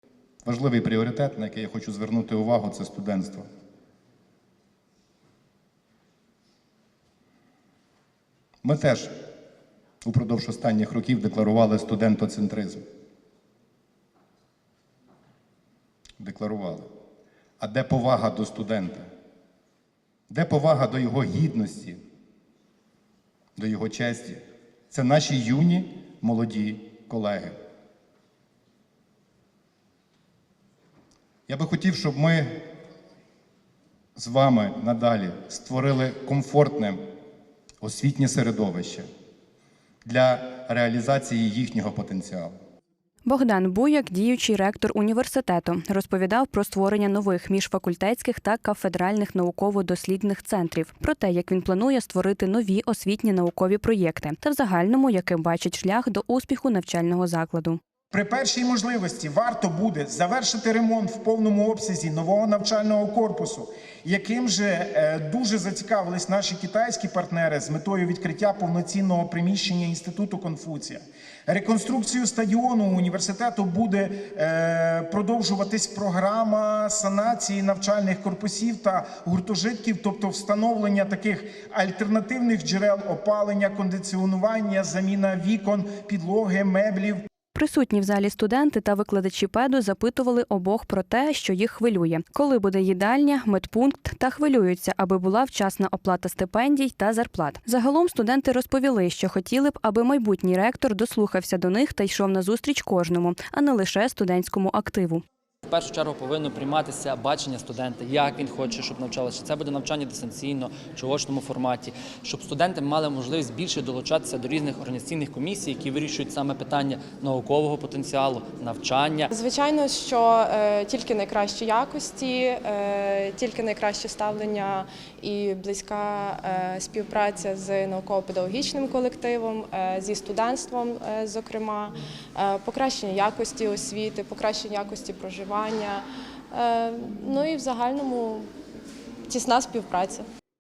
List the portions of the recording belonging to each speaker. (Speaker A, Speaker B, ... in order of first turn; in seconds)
Speaker A: 0.5-3.5, 8.6-9.1, 10.0-12.8, 16.2-16.9, 17.6-19.1, 20.3-22.0, 23.6-27.6, 31.5-32.6, 34.2-37.0, 37.8-39.1, 40.0-42.6
Speaker B: 43.3-57.8, 87.5-105.2
Speaker C: 58.1-87.2
Speaker D: 105.7-119.3
Speaker E: 119.3-138.5, 139.3-140.2